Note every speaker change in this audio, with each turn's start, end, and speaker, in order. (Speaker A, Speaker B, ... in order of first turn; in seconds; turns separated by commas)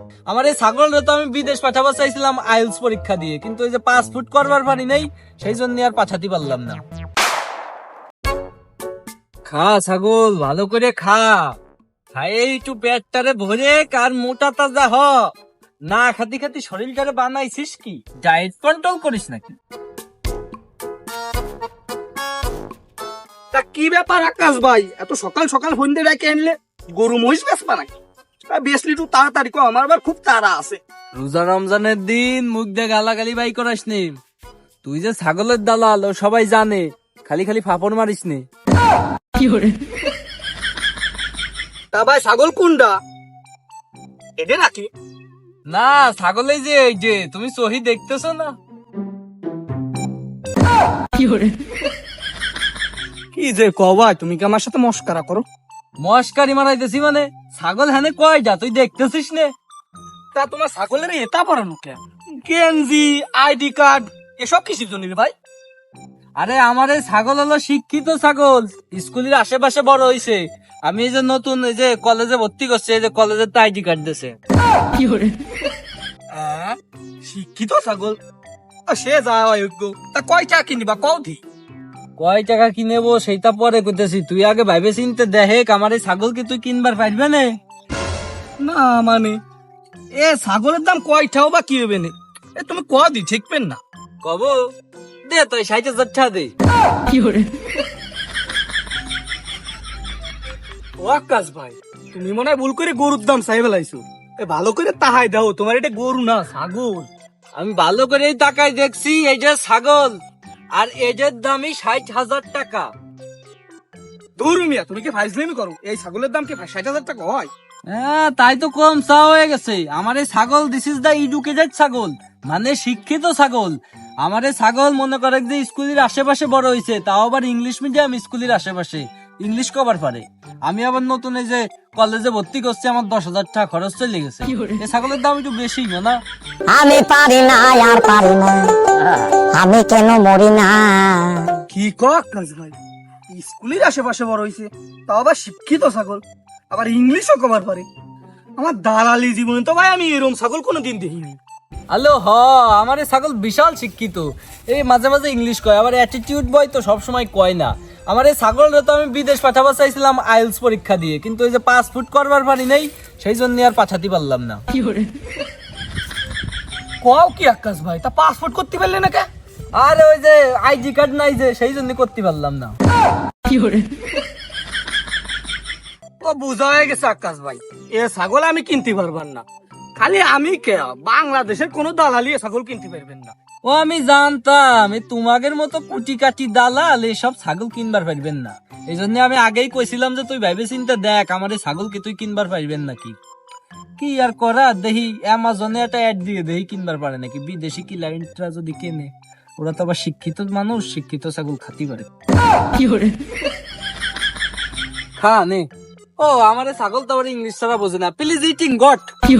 Speaker A: 0.3-6.8, Speaker A: 9.5-11.6, Speaker A: 12.1-15.3, Speaker A: 15.9-19.6, Speaker B: 23.5-27.9, Speaker B: 28.5-30.8, Speaker A: 31.2-34.2, Speaker A: 34.8-38.4, Speaker B: 41.9-43.0, Speaker B: 44.4-44.9, Speaker A: 45.7-48.5, Speaker B: 53.3-55.5, Speaker A: 56.0-59.5, Speaker B: 60.4-65.3, Speaker A: 66.4-74.3, Speaker B: 76.3-78.2, Speaker B: 78.9-81.4, Speaker A: 82.2-87.5, Speaker B: 88.6-89.4, Speaker B: 90.2-93.8, Speaker A: 94.2-94.6, Speaker A: 95.3-96.5, Speaker B: 101.0-107.1, Speaker A: 107.6-110.2, Speaker A: 110.8-112.9, Speaker B: 114.4-117.5, Speaker A: 117.9-136.2, Speaker C: 136.7-141.6, Speaker B: 141.7-142.8, Speaker B: 143.3-147.9, Speaker B: 148.6-151.4, Speaker A: 151.9-164.6, Speaker B: 167.0-169.3, Speaker A: 169.8-172.8, Speaker B: 176.2-179.4, Speaker B: 180.0-183.3, Speaker A: 183.7-193.2, Speaker A: 194.0-202.1, Speaker A: 205.2-205.7, Speaker A: 206.2-209.1